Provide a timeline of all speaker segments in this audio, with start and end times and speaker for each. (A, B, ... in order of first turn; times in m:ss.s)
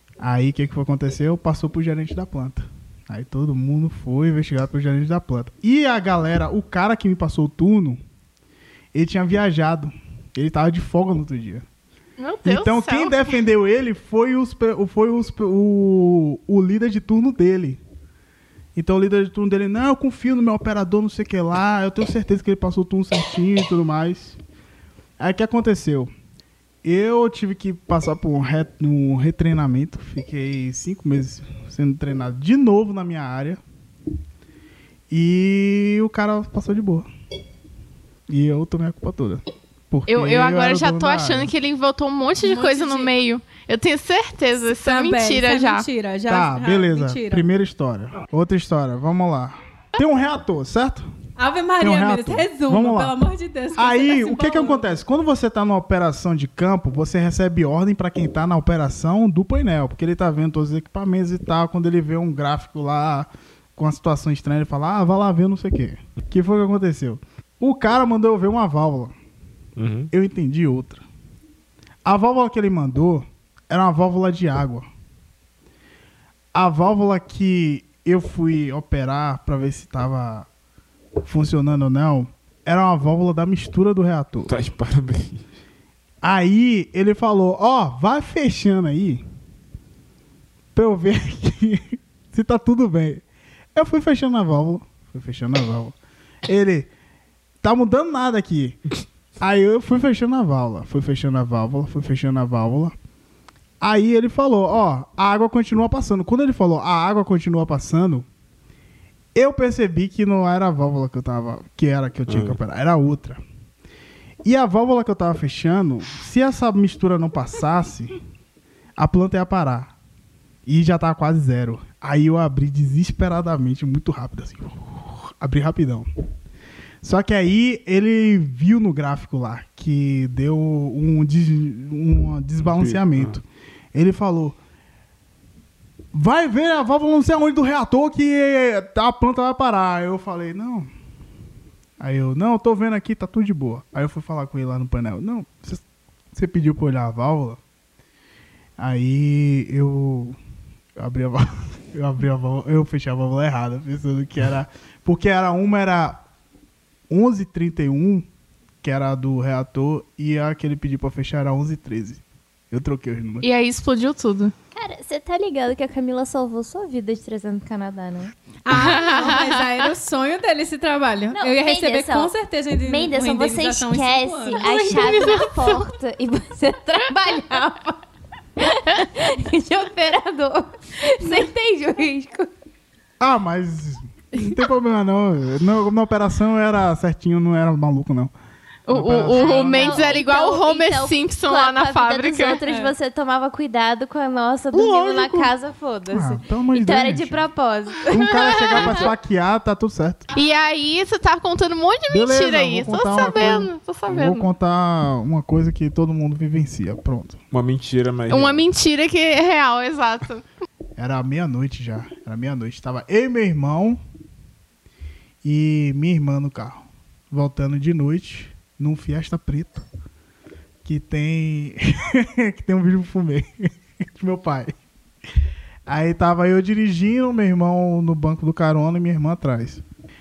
0:00.2-0:08.0 A
0:08.9-0:11.6 A
0:12.2-0:13.3 B
0:12.4-0:17.8 A
0:18.8-0:24.4 A
0:25.2-0:26.1 A
0:26.8-0:33.6 A
0:35.1-0:37.1 A
0:38.3-0:41.5 A
0:40.1-0:45.9 B
0:42.4-0:43.1 C
0:44.6-0:47.5 C
0:46.3-0:51.1 A
0:51.4-0:55.0 C
0:51.8-0:53.2 A
0:53.8-1:09.1 A
1:09.8-1:10.1 D
1:10.1-1:11.0 A
1:12.0-1:14.9 A
1:16.5-1:20.5 A
1:21.2-1:24.5 A
1:24.5-1:25.4 D
1:26.2-1:29.2 A
1:30.8-1:33.2 A
1:33.8-1:36.0 A
1:36.5-1:36.9 A
1:37.6-1:38.8 A
1:39.4-1:43.0 A
1:43.8-1:48.3 A
1:49.4-1:53.4 A
1:52.3-1:52.6 D
1:54.4-1:58.2 A
1:59.0-1:59.9 A
2:00.7-2:06.1 A
2:07.0-2:13.4 A
2:12.6-2:13.4 D
2:13.9-2:14.6 A
2:16.1-2:20.9 A
2:22.0-2:25.8 A
2:26.3-2:27.6 A
2:28.8-2:30.4 A
2:31.0-2:36.2 A
2:37.1-2:38.2 A
2:38.8-2:43.5 A
2:43.4-2:44.5 B
2:44.8-2:48.3 E
2:48.6-2:55.0 C
2:48.7-2:49.6 B
2:51.3-2:52.3 E
2:52.8-2:58.0 E
2:54.6-2:55.8 B
2:58.6-3:02.5 E
3:03.2-3:08.3 A
3:08.9-3:12.6 B
3:08.9-3:10.2 A
3:09.3-3:19.1 E
3:12.5-3:12.9 C
3:14.7-3:15.5 A
3:16.1-3:17.4 A
3:18.1-3:20.3 A
3:18.7-3:19.1 B
3:20.3-3:24.5 B
3:22.1-3:27.4 A
3:27.5-3:28.7 D
3:28.3-3:30.4 B
3:31.0-3:34.0 A
3:35.4-3:39.9 A
3:40.8-3:44.7 A
3:45.9-3:49.8 A